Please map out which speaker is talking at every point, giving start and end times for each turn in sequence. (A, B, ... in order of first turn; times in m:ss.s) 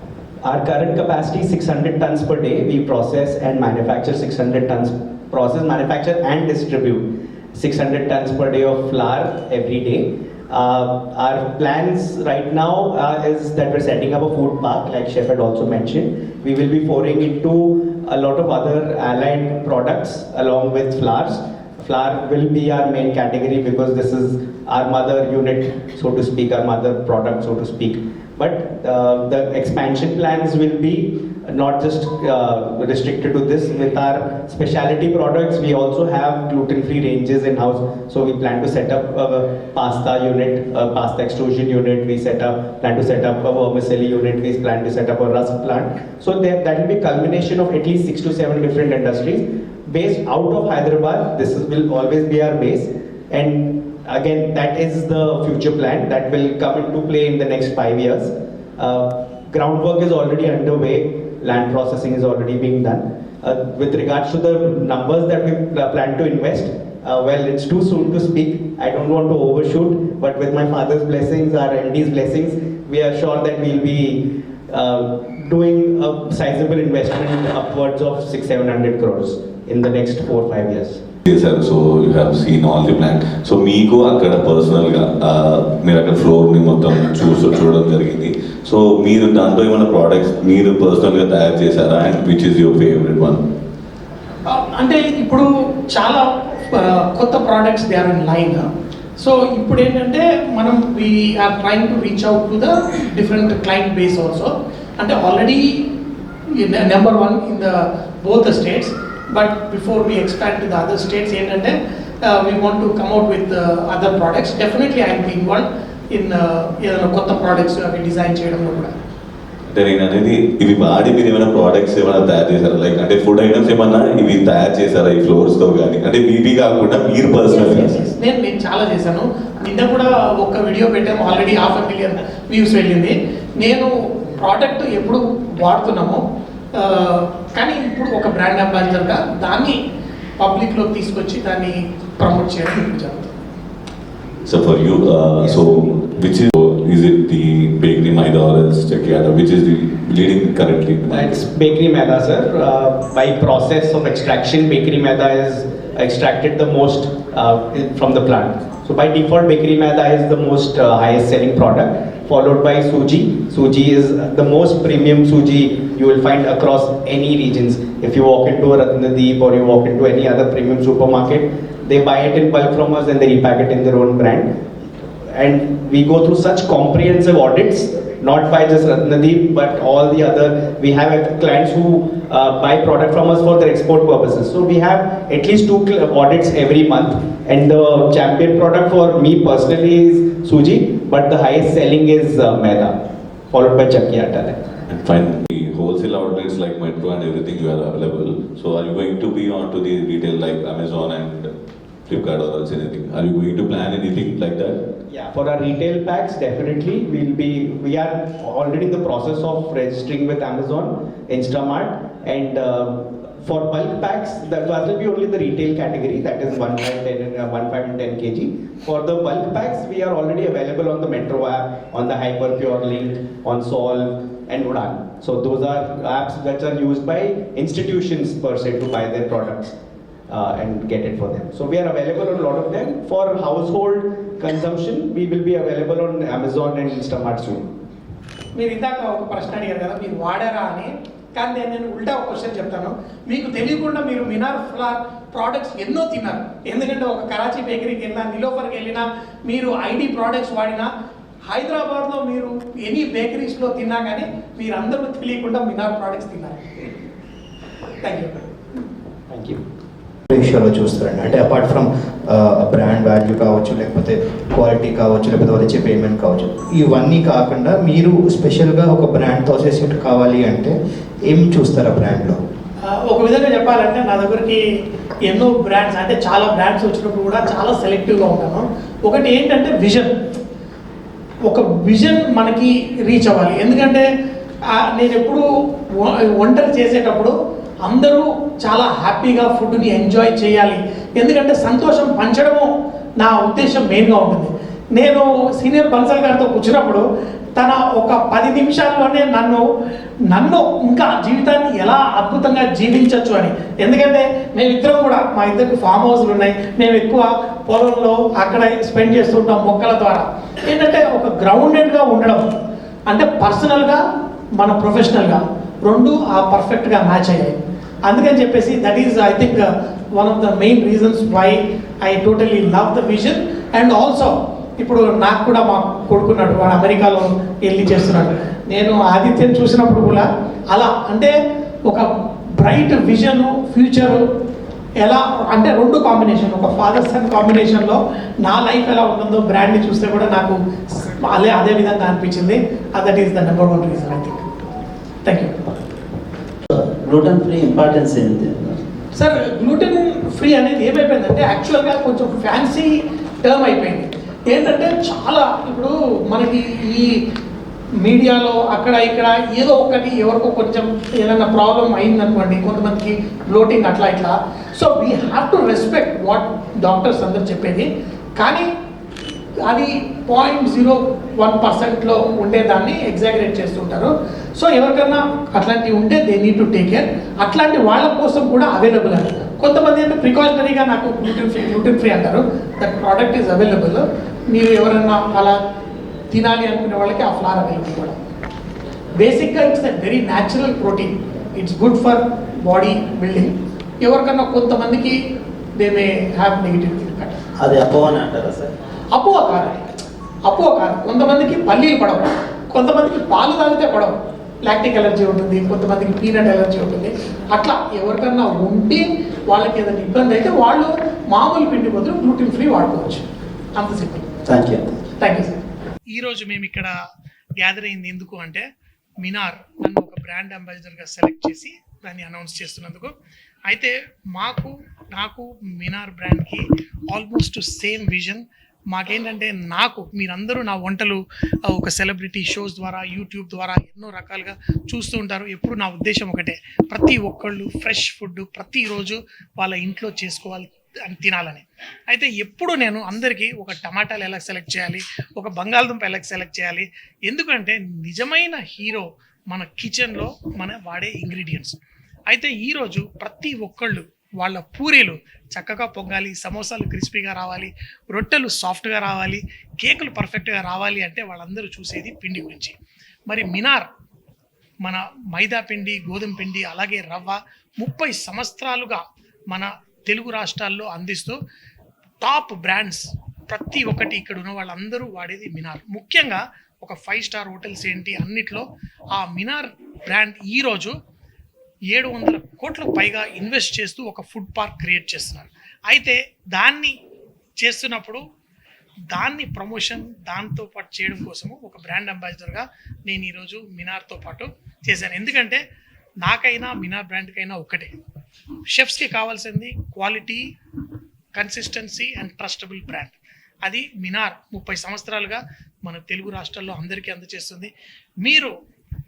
0:00.4-1:21.0 A
1:21.3-1:33.4 B
1:34.4-1:38.7 C
1:39.2-1:45.7 C
1:46.5-1:58.9 C
1:59.7-2:07.9 B
2:07.5-2:16.2 C
2:16.8-2:19.8 C
2:20.4-2:23.3 C
2:24.4-2:31.4 B
2:31.1-2:54.5 A
2:55.3-3:12.9 A
3:13.5-3:14.6 A
3:14.9-3:21.5 B
3:22.1-3:24.8 B
3:25.1-3:49.7 A
3:50.3-3:57.7 A
3:58.6-4:10.9 C
4:11.5-4:16.9 C
4:18.0-4:18.5 C
4:20.3-4:32.4 D
4:32.8-4:34.6 C
4:35.3-4:40.1 C
4:41.5-4:44.1 C
4:44.7-4:57.0 C
4:57.6-4:59.6 C
5:00.3-5:12.5 C
5:13.1-5:14.0 C
5:14.6-5:31.3 C
5:31.9-5:34.2 C
5:35.0-5:44.5 C
5:45.2-5:45.6 C
5:46.7-5:48.8 E
5:49.2-5:57.2 C
5:58.0-6:08.7 C
6:09.6-6:25.6 C
6:26.3-6:28.1 C
6:29.1-6:35.2 C
6:35.8-6:37.4 C
6:37.6-6:38.7 E
6:39.1-6:39.8 C
6:40.4-6:54.4 C
6:54.5-6:54.8 E
6:55.2-6:56.9 C
6:57.6-6:58.6 C
6:59.2-7:03.1 C
7:03.7-7:31.8 C
7:32.3-7:42.7 C
7:43.3-7:43.9 C
7:44.8-7:51.4 C
7:52.2-8:00.9 C
8:01.9-8:06.9 C
8:07.6-8:08.2 C
8:09.1-8:15.6 C
8:16.2-8:17.9 C
8:18.7-8:20.4 C
8:21.3-8:27.7 C
8:28.2-8:28.5 C